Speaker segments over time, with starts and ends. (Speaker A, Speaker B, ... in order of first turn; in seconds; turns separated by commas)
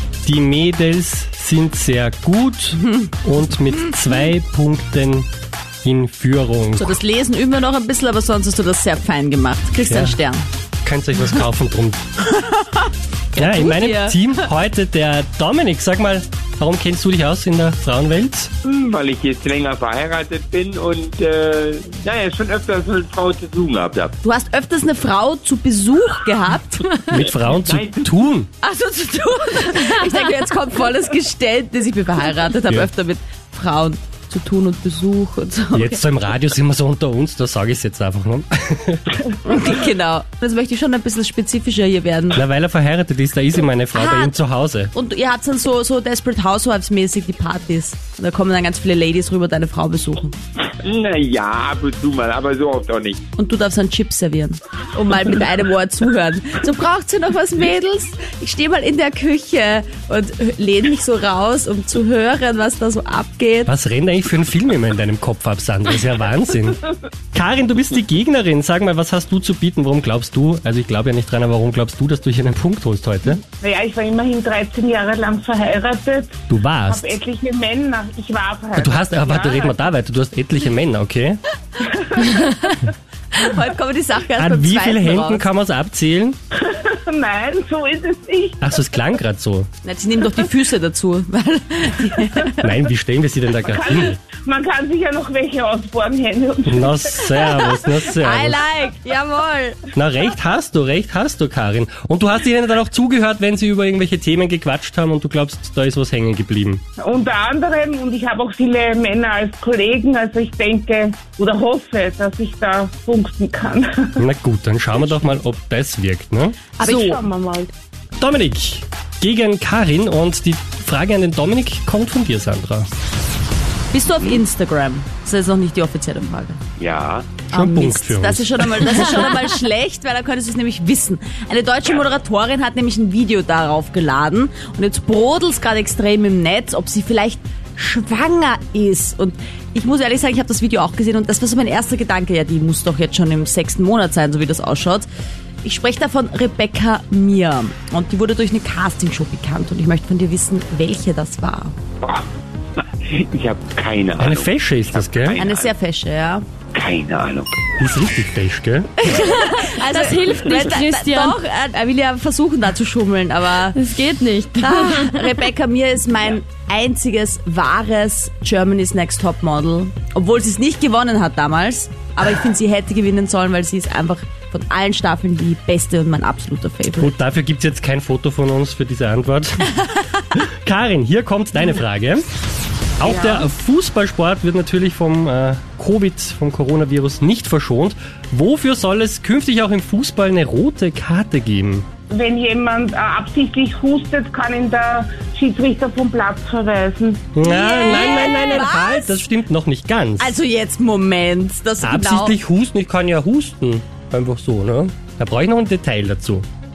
Speaker A: 0.2-5.3, Speaker B: 2.9-3.1, Speaker A: 5.8-6.9, Speaker B: 6.8-10.4, Speaker A: 9.9-10.2, Speaker A: 10.8-12.0, Speaker B: 12.2-14.4, Speaker A: 13.3-18.5, Speaker C: 18.6-24.1, Speaker B: 24.2-27.0, Speaker A: 27.0-28.5, Speaker C: 27.5-28.1, Speaker B: 28.6-36.0, Speaker A: 35.7-39.0, Speaker B: 39.4-42.4, Speaker A: 42.3-44.9, Speaker B: 43.9-44.3, Speaker B: 44.9-50.3, Speaker C: 50.8-53.2, Speaker B: 53.4-63.7, Speaker A: 63.7-73.4, Speaker D: 73.6-76.3, Speaker A: 76.5-77.1, Speaker D: 76.8-79.8, Speaker A: 78.7-81.4, Speaker D: 81.8-82.4, Speaker B: 82.2-85.5, Speaker A: 84.4-86.4, Speaker D: 86.5-88.6, Speaker A: 88.6-89.7, Speaker B: 89.8-92.7, Speaker A: 92.6-94.2, Speaker D: 93.6-97.7, Speaker A: 96.7-98.6, Speaker B: 97.4-99.8, Speaker A: 99.9-106.8, Speaker D: 107.0-114.2, Speaker A: 114.2-116.7, Speaker D: 116.8-117.7, Speaker B: 116.8-117.2, Speaker A: 118.2-122.9, Speaker B: 123.9-126.6, Speaker C: 126.8-127.4, Speaker B: 127.5-145.1, Speaker A: 127.5-129.1, Speaker B: 145.6-151.8, Speaker C: 152.8-155.7, Speaker A: 154.2-155.4, Speaker B: 155.4-156.4, Speaker C: 156.7-157.7, Speaker A: 157.8-158.9, Speaker B: 159.0-163.9, Speaker E: 159.1-161.4, Speaker E: 163.6-165.4, Speaker B: 164.5-177.1, Speaker A: 177.0-182.2, Speaker A: 183.0-191.8, Speaker D: 183.0-183.5, Speaker D: 192.1-197.2, Speaker A: 197.3-200.3, Speaker B: 197.4-199.2, Speaker B: 200.2-202.4, Speaker A: 201.8-206.4